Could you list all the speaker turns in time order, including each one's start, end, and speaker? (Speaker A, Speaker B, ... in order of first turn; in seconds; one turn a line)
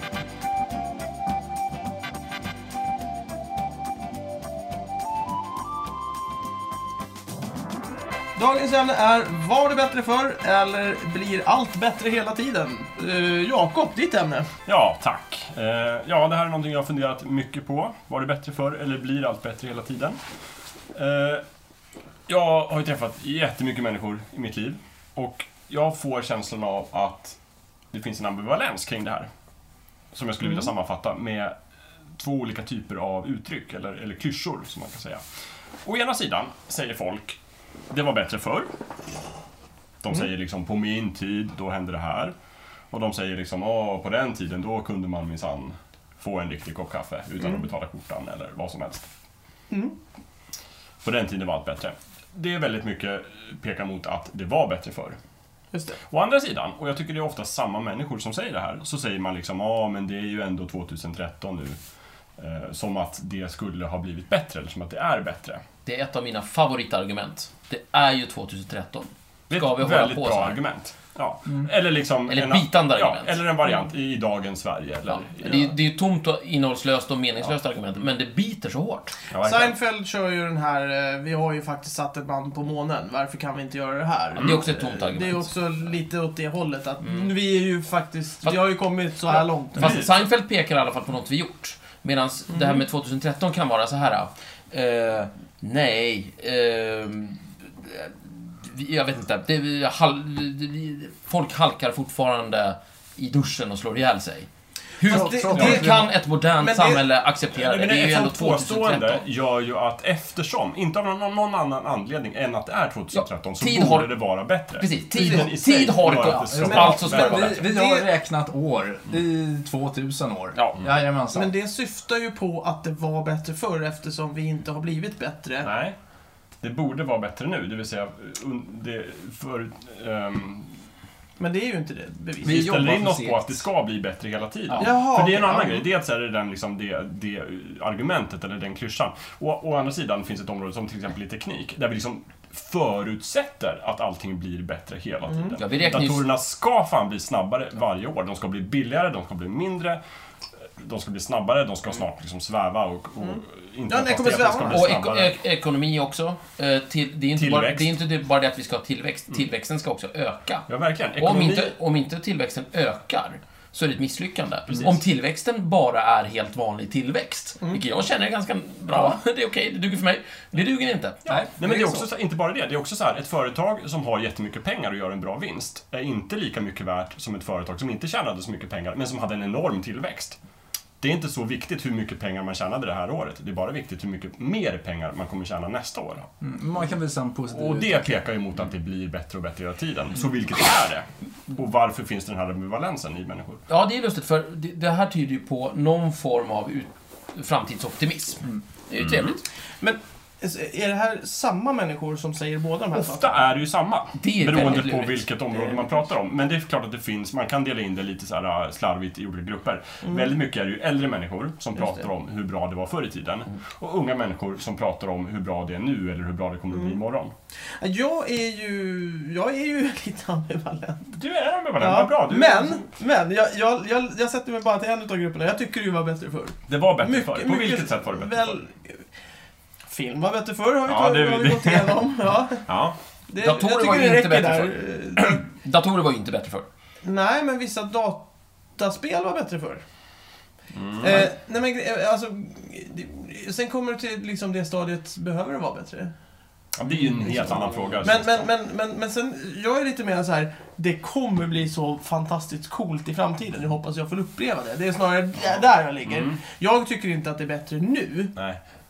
Speaker A: 8.3-14.5
Speaker B: 14.7-20.2
Speaker B: 20.9-21.4
Speaker B: 22.3-27.4
Speaker B: 27.9-29.3
Speaker B: 30.1-31.6
Speaker B: 32.2-35.2
Speaker B: 35.8-37.4
Speaker B: 37.9-38.7
Speaker B: 40.0-42.3
Speaker B: 42.9-49.0
Speaker A: 47.4-47.7
Speaker A: 49.7-50.0
Speaker B: 51.0-55.2
Speaker A: 55.7-56.0
Speaker B: 56.1-61.8
Speaker B: 62.4-65.6
Speaker C: 65.8-70.6
Speaker B: 69.5-75.7
Speaker C: 72.3-73.4
Speaker C: 75.1-79.1
Speaker B: 79.3-79.7
Speaker A: 79.4-90.1
Speaker B: 84.4-84.7
Speaker C: 84.4-85.5
Speaker C: 87.0-87.3
Speaker C: 89.7-109.2
Speaker B: 89.7-90.1
Speaker A: 92.5-92.8
Speaker A: 105.0-107.1
Speaker D: 105.0-106.0
Speaker B: 107.5-117.7
Speaker C: 113.1-114.2
Speaker C: 114.7-117.6
Speaker A: 115.2-115.4
Speaker D: 115.2-121.5
Speaker A: 116.7-118.1
Speaker B: 120.5-120.9
Speaker A: 121.3-125.7
Speaker B: 125.6-126.0
Speaker B: 126.6-130.7
Speaker A: 131.4-132.7
Speaker B: 132.4-150.0
Speaker D: 132.4-133.6
Speaker D: 134.7-134.9
Speaker A: 134.7-135.8
Speaker A: 145.3-145.6
Speaker C: 145.6-146.3
Speaker B: 150.8-155.3
Speaker A: 153.2-154.8
Speaker C: 154.7-160.7
Speaker B: 157.3-157.9
Speaker B: 160.7-161.8
Speaker C: 161.2-171.2
Speaker B: 171.2-180.4
Speaker D: 171.3-172.1
Speaker B: 181.0-186.3
Speaker D: 186.4-188.1
Speaker B: 187.5-193.6
Speaker C: 193.7-199.4
Speaker B: 199.0-199.4
Speaker A: 199.8-203.4
Speaker B: 202.9-217.3
Speaker C: 204.2-205.3
Speaker A: 216.7-217.0
Speaker A: 217.8-221.2
Speaker B: 221.1-222.9
Speaker A: 221.8-229.1
Speaker B: 226.7-228.6
Speaker A: 229.9-232.7
Speaker B: 230.8-232.1
Speaker B: 232.7-233.0
Speaker A: 233.3-235.4
Speaker C: 233.4-236.7
Speaker A: 237.0-239.8
Speaker B: 240.7-241.3
Speaker A: 241.0-246.1
Speaker B: 246.7-248.4
Speaker A: 248.0-258.4
Speaker B: 256.0-256.4